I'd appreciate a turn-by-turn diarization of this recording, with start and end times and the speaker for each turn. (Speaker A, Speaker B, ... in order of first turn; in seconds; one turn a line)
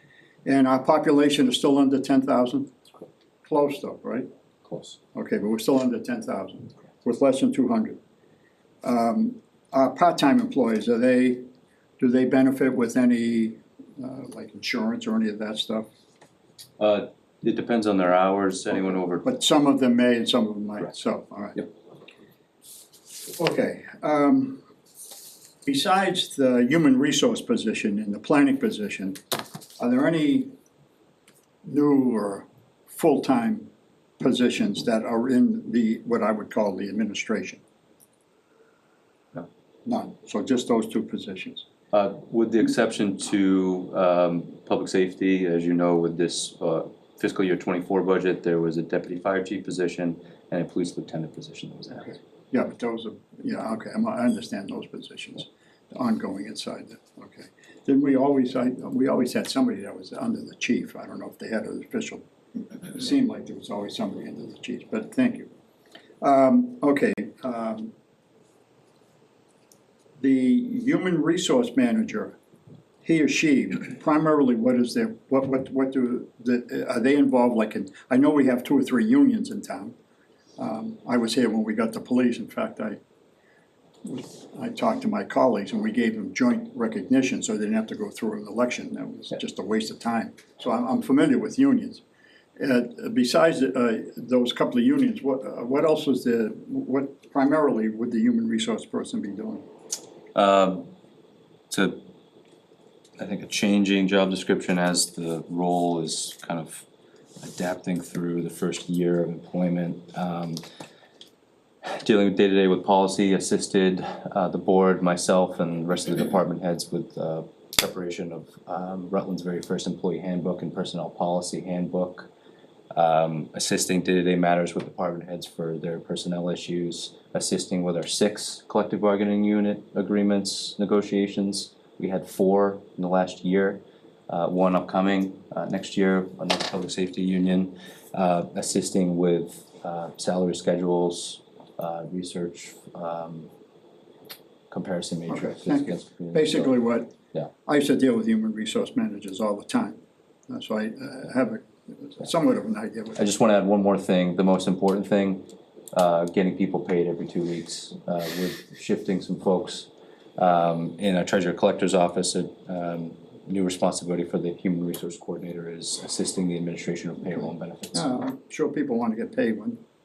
Speaker A: 0.5-2.7
Speaker A: 3.4-4.3
Speaker B: 4.7-5.0
Speaker A: 5.1-8.0
Speaker A: 8.8-11.4
Speaker A: 12.0-15.9
Speaker B: 16.8-19.2
Speaker A: 19.2-21.6
Speaker A: 23.4-24.6
Speaker A: 25.6-29.2
Speaker A: 29.8-30.5
Speaker A: 31.6-37.6
Speaker A: 39.9-41.6
Speaker B: 41.9-52.0
Speaker A: 52.0-62.2
Speaker A: 62.8-65.5
Speaker A: 66.2-67.9
Speaker A: 70.2-72.4
Speaker A: 73.0-80.0
Speaker A: 80.6-83.0
Speaker A: 84.0-92.0
Speaker A: 92.6-99.7
Speaker B: 100.3-100.9
Speaker B: 101.7-102.0
Speaker B: 103.2-106.8
Speaker B: 107.4-110.6
Speaker B: 111.8-122.3
Speaker B: 122.9-143.5
Speaker B: 144.7-146.7
Speaker A: 145.3-153.3
Speaker B: 153.2-168.1
Speaker A: 167.9-169.8